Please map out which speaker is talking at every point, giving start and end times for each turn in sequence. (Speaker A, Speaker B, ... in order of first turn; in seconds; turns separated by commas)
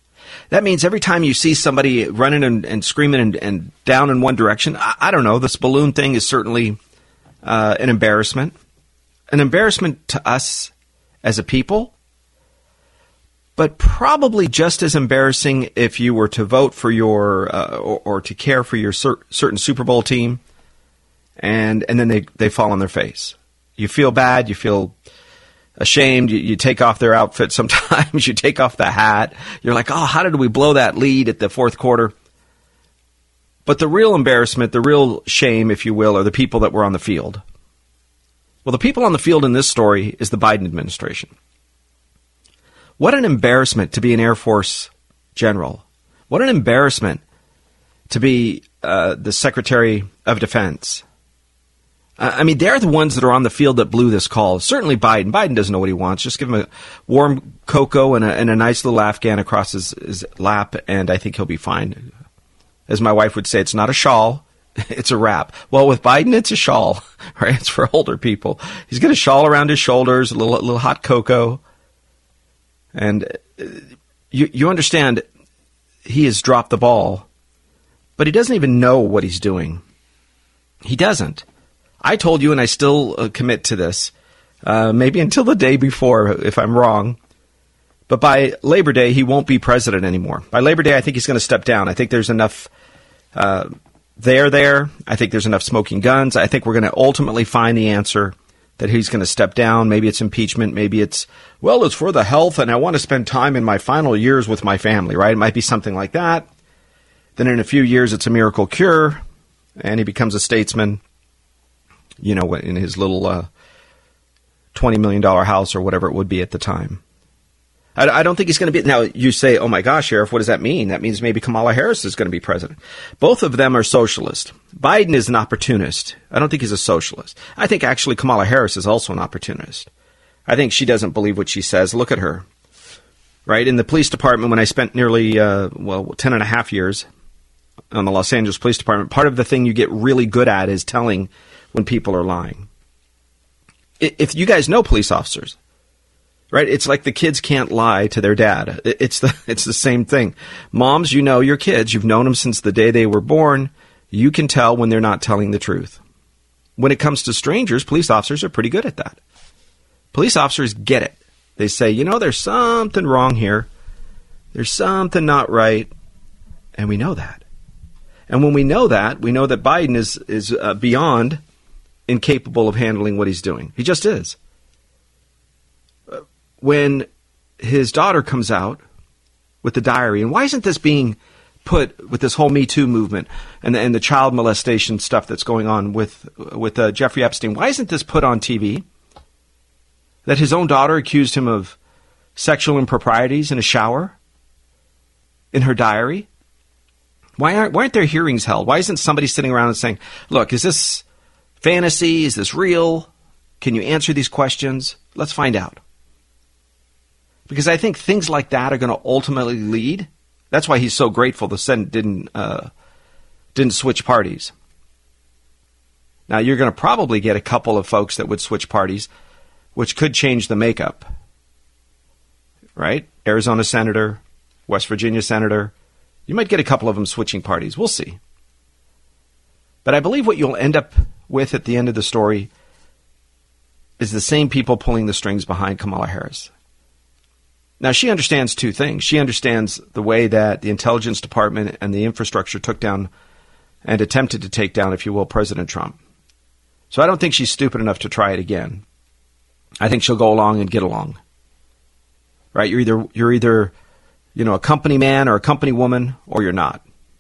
Speaker A: 0.5-6.8, Speaker A: 7.4-8.5, Speaker A: 9.3-10.7, Speaker A: 11.2-11.9, Speaker A: 13.6-20.4, Speaker A: 21.4-24.9, Speaker A: 25.8-32.1, Speaker A: 33.6-37.4, Speaker A: 38.6-41.3, Speaker A: 43.0-47.2, Speaker A: 48.1-51.0, Speaker A: 52.2-62.1, Speaker A: 62.9-71.6, Speaker A: 72.9-75.2, Speaker A: 76.0-77.3, Speaker A: 78.2-79.8, Speaker A: 80.8-81.4, Speaker A: 82.0-84.1, Speaker A: 84.6-87.2, Speaker A: 88.1-92.7, Speaker A: 93.3-106.5, Speaker A: 107.3-109.2, Speaker A: 109.8-111.0, Speaker A: 112.2-113.5, Speaker A: 114.7-117.0, Speaker A: 118.0-129.9, Speaker A: 130.5-132.4, Speaker A: 133.4-137.1, Speaker A: 137.9-142.7, Speaker A: 144.0-145.6, Speaker A: 146.5-156.0, Speaker A: 156.8-159.2, Speaker A: 160.1-163.7, Speaker A: 164.5-165.9, Speaker A: 166.8-167.4, Speaker A: 168.3-171.4, Speaker A: 172.1-174.4, Speaker A: 176.1-177.1, Speaker A: 177.6-178.8, Speaker A: 179.6-188.8, Speaker A: 190.2-191.8, Speaker A: 192.3-194.2, Speaker A: 195.5-196.3, Speaker A: 197.4-201.0, Speaker A: 201.6-205.8, Speaker A: 207.5-212.7, Speaker A: 213.5-214.5, Speaker A: 216.3-219.1, Speaker A: 219.7-221.1, Speaker A: 222.8-225.7, Speaker A: 226.3-228.2, Speaker A: 229.8-232.5, Speaker A: 234.0-236.5, Speaker A: 237.8-243.1, Speaker A: 243.8-246.0, Speaker A: 246.9-248.8, Speaker A: 249.8-251.2, Speaker A: 252.5-253.7, Speaker A: 254.3-256.8